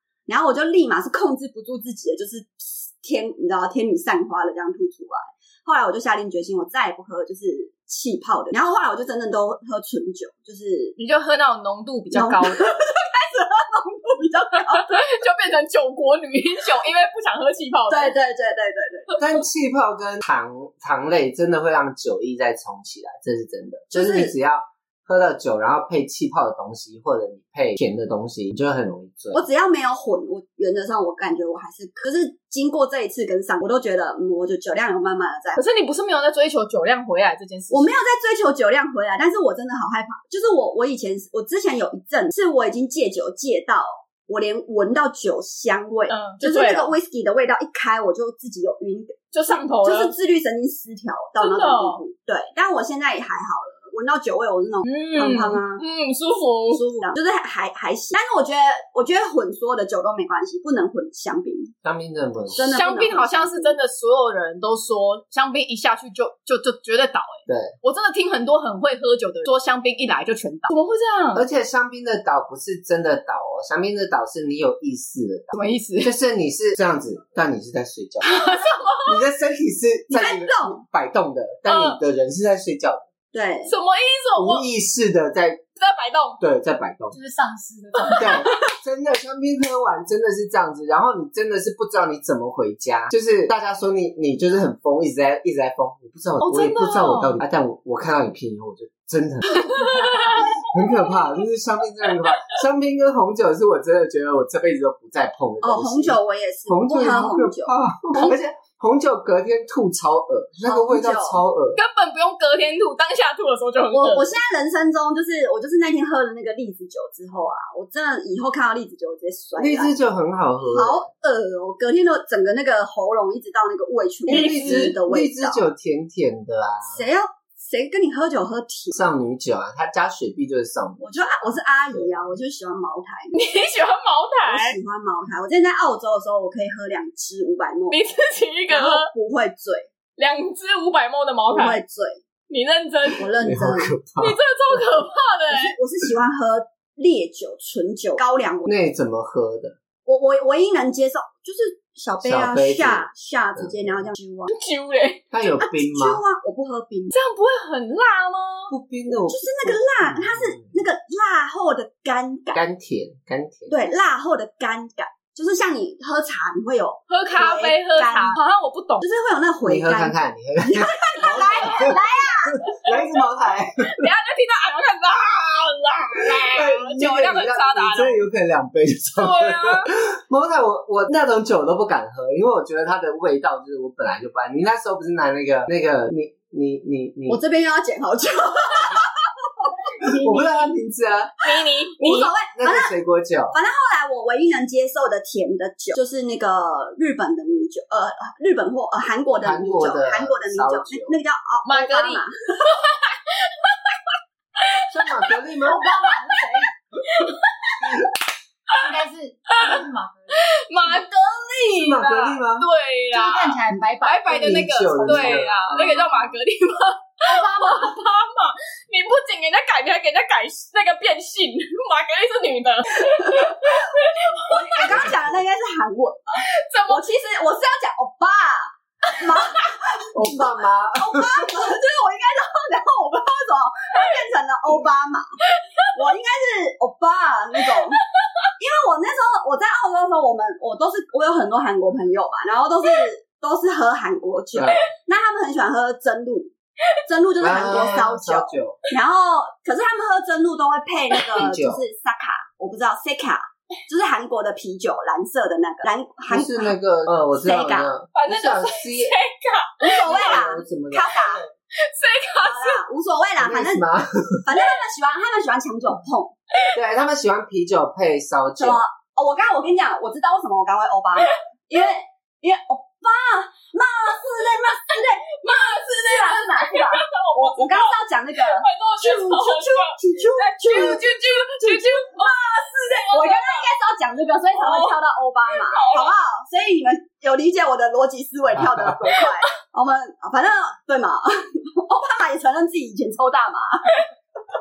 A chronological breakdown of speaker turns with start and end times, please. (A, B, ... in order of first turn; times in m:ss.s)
0:00.3-0:11.0 A
0:11.0-0:12.7 B
0:12.1-0:14.9 A
0:14.7-0:18.1 B
0:17.9-0:19.1 A
0:19.2-0:29.4 C
0:23.9-0:24.3 A
0:29.3-0:35.6 A
0:35.6-0:37.9 B
0:37.7-0:49.2 A
0:46.1-0:46.9 B
0:49.3-0:50.1 B
0:49.8-0:55.8 A
0:51.4-0:52.0 B
0:54.8-0:57.0 B
0:56.7-1:01.7 A
1:01.8-1:02.7 C
1:02.5-1:03.8 A
1:02.6-1:11.4 B
1:07.5-1:07.7 C
1:11.3-1:18.4 C
1:15.5-1:16.1 B
1:18.2-1:19.1 B
1:19.0-1:23.0 C
1:20.1-1:20.8 A
1:21.6-1:22.0 B
1:23.3-1:23.7 A
1:23.7-1:24.6 B
1:24.4-1:25.6 C
1:25.8-1:26.4 B
1:26.4-1:27.2 C
1:27.1-1:28.5 D
1:28.0-1:28.4 B
1:28.2-1:51.8 C
1:36.4-1:37.4 B
1:39.5-1:40.4 B
1:40.3-1:40.6 A
1:45.6-1:48.3 A
1:50.6-1:51.4 A
1:51.7-1:54.3 B
1:53.9-1:59.9 A
1:59.6-2:01.1 C
2:00.6-2:05.6 A
2:04.3-2:04.9 B
2:04.3-2:07.0 C
2:06.8-2:09.0 A
2:08.9-2:12.3 C
2:11.0-2:13.4 A
2:13.3-2:14.8 B
2:14.5-2:18.0 A
2:17.9-2:19.1 B
2:18.7-2:19.9 A
2:20.2-2:21.8 B
2:21.5-2:22.2 A
2:22.5-2:23.3 B
2:23.2-2:23.9 A
2:23.4-2:24.8 C
2:24.2-2:25.8 B
2:25.5-2:28.7 A
2:28.6-2:29.8 C
2:30.0-2:34.5 A
2:32.2-2:34.0 C
2:34.5-2:35.2 B
2:35.3-2:36.2 C
2:35.6-2:37.1 A
2:37.1-2:38.7 B
2:38.7-2:40.8 C
2:39.3-2:42.6 A
2:42.5-2:43.7 C
2:43.7-2:48.4 A
2:47.1-2:49.0 B
2:49.0-2:52.6 A
2:49.6-2:54.1 C
2:51.2-2:51.9 B
2:53.9-2:58.2 B
2:56.2-3:07.4 C
2:59.2-2:59.9 B
3:07.3-3:09.0 A
3:09.6-3:10.6 A
3:10.0-3:11.4 C
3:11.4-3:12.3 B
3:12.0-3:12.9 A
3:12.5-3:13.5 C
3:13.5-3:22.7 A
3:19.4-3:21.1 C
3:21.6-3:24.0 B
3:24.6-3:25.3 B
3:24.9-3:25.9 C
3:25.7-3:26.7 D
3:26.0-3:26.4 B
3:27.1-3:28.0 B
3:27.8-3:28.1 C
3:28.7-3:31.0 D
3:29.5-3:45.0 B
3:31.7-3:32.7 C
3:33.1-3:35.5 D
3:34.3-3:36.3 C
3:37.2-3:37.9 D
3:43.0-3:55.4 A
3:44.8-3:45.4 C
3:46.4-3:47.1 B
3:50.1-3:51.5 C
3:55.6-3:55.9 B
3:55.9-3:58.0 A
3:58.6-4:06.5 A
4:04.5-4:04.9 C
4:07.0-4:16.7 A
4:07.4-4:08.8 C
4:11.4-4:11.8 C
4:16.3-4:19.1 C
4:17.4-4:17.9 A
4:18.1-4:20.2 B
4:19.8-4:21.4 A
4:19.9-4:21.5 C
4:21.8-4:22.8 B
4:22.4-4:23.8 A
4:23.4-4:24.4 C
4:24.4-4:26.3 A
4:26.7-4:28.8 C
4:28.6-4:35.3 A
4:35.3-4:43.7 B
4:35.9-4:54.0 A
4:44.5-4:45.0 B
4:45.5-4:46.1 B
4:48.6-4:48.9 C